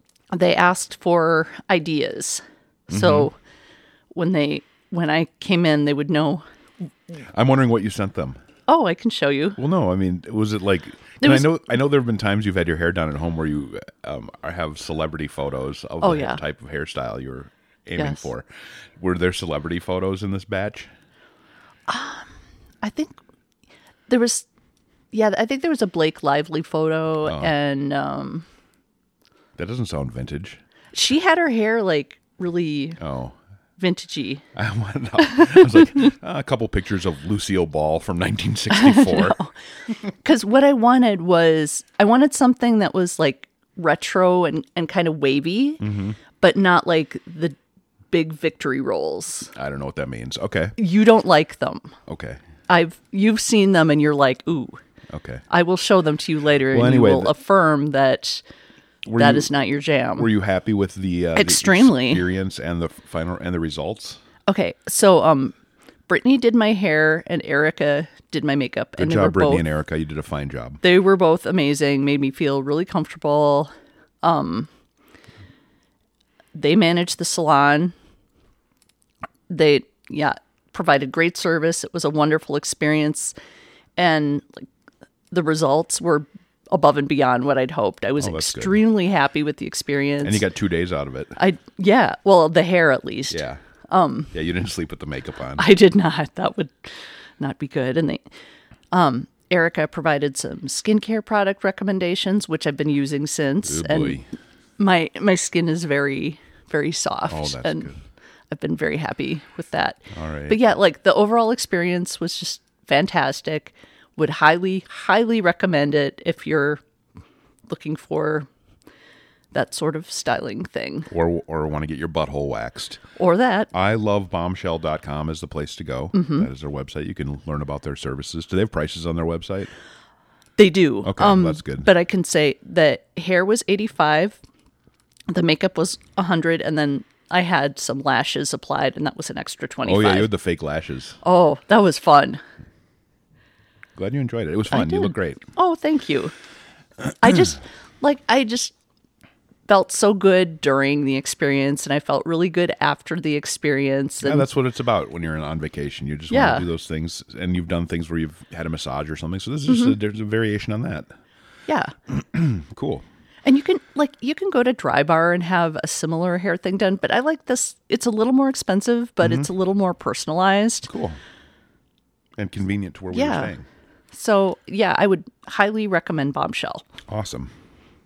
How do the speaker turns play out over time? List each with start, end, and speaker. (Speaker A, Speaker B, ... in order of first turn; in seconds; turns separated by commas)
Speaker A: 0.3-3.3, Speaker B: 2.9-3.3, Speaker A: 4.1-6.4, Speaker B: 7.3-8.4, Speaker A: 8.7-9.6, Speaker B: 9.6-18.4, Speaker A: 11.2-11.5, Speaker A: 16.0-16.4, Speaker A: 18.0-18.3, Speaker B: 19.0-20.9, Speaker A: 21.9-22.3, Speaker A: 22.8-23.2, Speaker A: 24.1-24.4, Speaker A: 25.1-28.4, Speaker B: 27.2-27.5, Speaker B: 29.6-30.6, Speaker A: 30.9-33.0, Speaker B: 33.0-33.4, Speaker A: 33.8-34.4, Speaker B: 34.5-39.4, Speaker A: 35.3-35.8, Speaker A: 38.7-39.5, Speaker A: 40.2-45.8, Speaker B: 45.8-46.2, Speaker A: 46.4-47.5, Speaker A: 48.1-49.5, Speaker B: 49.5-50.7, Speaker A: 50.8-51.9, Speaker B: 52.1-52.4, Speaker A: 52.7-54.8, Speaker B: 55.1-55.4, Speaker A: 55.5-58.4, Speaker B: 56.7-57.3, Speaker B: 59.0-59.5, Speaker A: 59.2-60.3, Speaker B: 60.2-64.2, Speaker A: 61.4-62.2, Speaker A: 64.5-65.5, Speaker A: 66.1-69.6, Speaker B: 69.0-70.8, Speaker A: 70.8-73.7, Speaker A: 74.2-74.7, Speaker A: 76.5-77.9, Speaker A: 79.5-83.3, Speaker A: 84.0-84.7, Speaker A: 85.3-90.4, Speaker B: 88.2-88.8, Speaker B: 90.2-91.4, Speaker A: 91.4-94.3, Speaker B: 93.3-93.6, Speaker B: 94.3-95.7, Speaker A: 95.6-98.2, Speaker A: 98.9-104.2, Speaker B: 103.6-104.3, Speaker A: 104.8-107.9, Speaker B: 107.3-108.0, Speaker A: 108.5-116.8, Speaker B: 110.1-110.6, Speaker A: 117.7-118.5, Speaker A: 119.5-121.1, Speaker B: 121.1-123.0, Speaker A: 123.2-123.7, Speaker B: 123.7-129.7, Speaker A: 126.1-126.5, Speaker A: 130.6-134.4, Speaker B: 131.0-131.9, Speaker A: 135.3-140.3, Speaker B: 139.8-141.2, Speaker A: 141.2-142.4, Speaker B: 143.9-145.4, Speaker A: 144.7-146.3, Speaker A: 147.2-148.7, Speaker A: 149.7-154.4, Speaker B: 154.2-161.1, Speaker A: 156.3-156.6, Speaker A: 159.7-159.9, Speaker A: 161.7-161.9, Speaker B: 162.1-163.0, Speaker A: 163.4-170.9, Speaker B: 169.2-169.5, Speaker B: 170.8-171.2, Speaker B: 172.4-173.7, Speaker A: 173.1-173.5, Speaker A: 174.1-176.8, Speaker B: 177.1-177.5